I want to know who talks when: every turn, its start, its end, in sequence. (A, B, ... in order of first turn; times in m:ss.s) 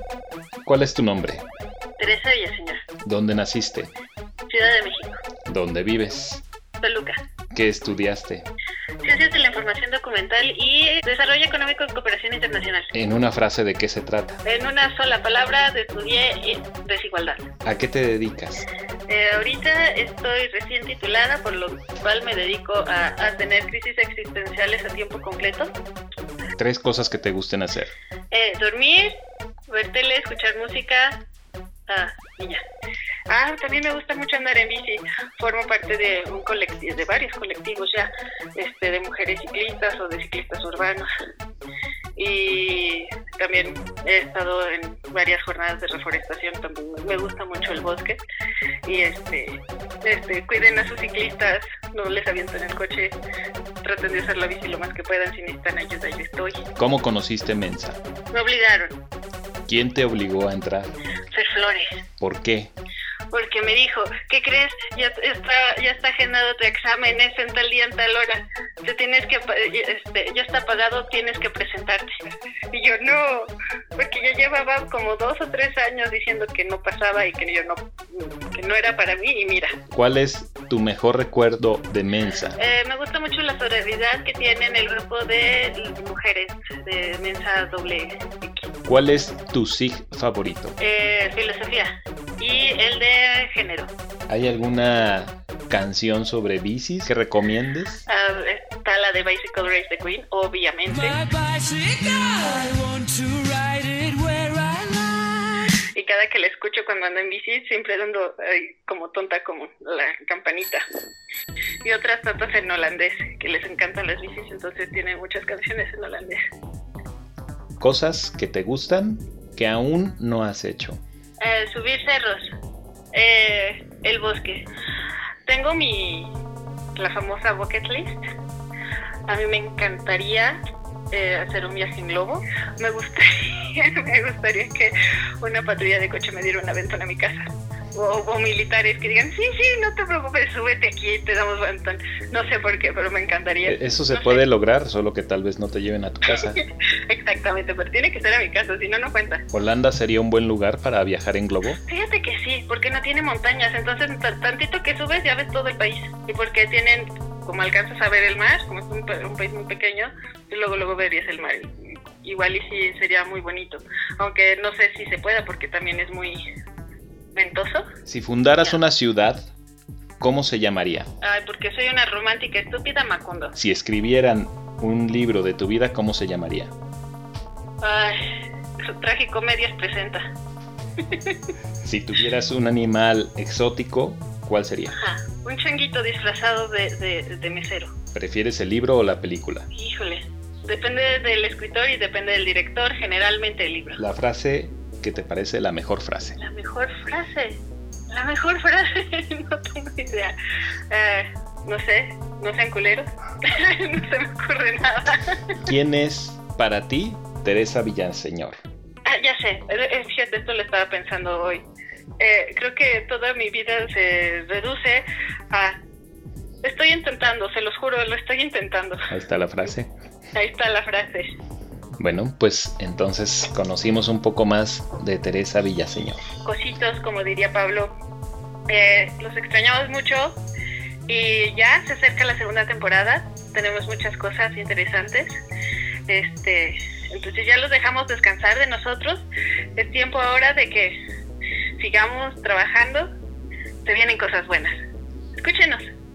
0:00.6-0:01.5 A
0:02.0-0:02.9 B
0:03.0-0:03.9 A
0:04.5-0:05.2 B
0:05.5-0:06.4 A
0:06.8-0:07.2 B
0:07.5-0:08.5 A
0:09.0-0:12.9 B
0:12.9-0:14.4 A
0:14.4-0:17.5 B
0:17.6-0:18.7 A
0:19.1-0:25.7 B
0:26.6-0:27.9 A
0:28.3-0:31.2 B
0:31.9-0:32.6 B
0:33.3-0:41.1 B
0:42.2-0:48.2 B
0:48.9-0:53.2 B
0:53.8-0:56.6 B
0:56.8-0:58.0 A
0:58.3-0:59.0 B
0:59.7-1:00.9 A
1:01.3-1:02.0 B
1:02.2-1:02.7 A
1:03.3-1:19.8 B
1:19.9-1:22.6 A
1:22.6-1:28.7 B
1:28.9-1:30.8 A
1:30.8-1:33.9 B
1:34.3-1:38.0 A
1:38.1-1:41.3 B
1:41.2-1:45.4 C
1:46.0-1:50.8 B
1:51.8-1:56.4 B
1:57.8-2:01.0 A
2:01.4-2:02.5 B
2:03.1-2:04.7 B
2:05.5-2:06.4 B
2:07.0-2:08.3 B
2:09.3-2:10.6 B
2:11.1-2:24.4 B
2:23.6-2:26.6 A
2:26.3-2:29.4 B
2:29.5-2:31.8 A
2:31.8-2:46.4 B
2:47.3-2:47.9 B
2:48.1-2:49.4 A
2:50.2-2:51.1 A
2:51.2-2:53.5 B
2:53.5-2:56.7 A
2:57.8-3:00.2 B
3:01.0-3:01.5 B
3:01.8-3:05.0 A
3:04.9-3:08.0 B
3:08.1-3:09.7 A
3:09.7-3:14.0 B
3:14.0-3:16.4 A
3:16.4-3:20.3 B
3:20.9-3:25.6 B
3:25.6-3:28.6 A
3:29.0-3:31.6 B
3:32.2-3:35.8 B
3:36.6-3:39.1 B
3:39.1-3:39.9 A
3:40.3-3:41.3 B
3:42.0-3:46.2 A
3:46.4-3:47.9 B
3:48.7-3:50.4 B
3:51.1-3:55.3 B
3:56.1-4:01.0 B
4:01.8-4:03.1 B
4:03.8-4:04.8 B
4:05.4-4:05.9 B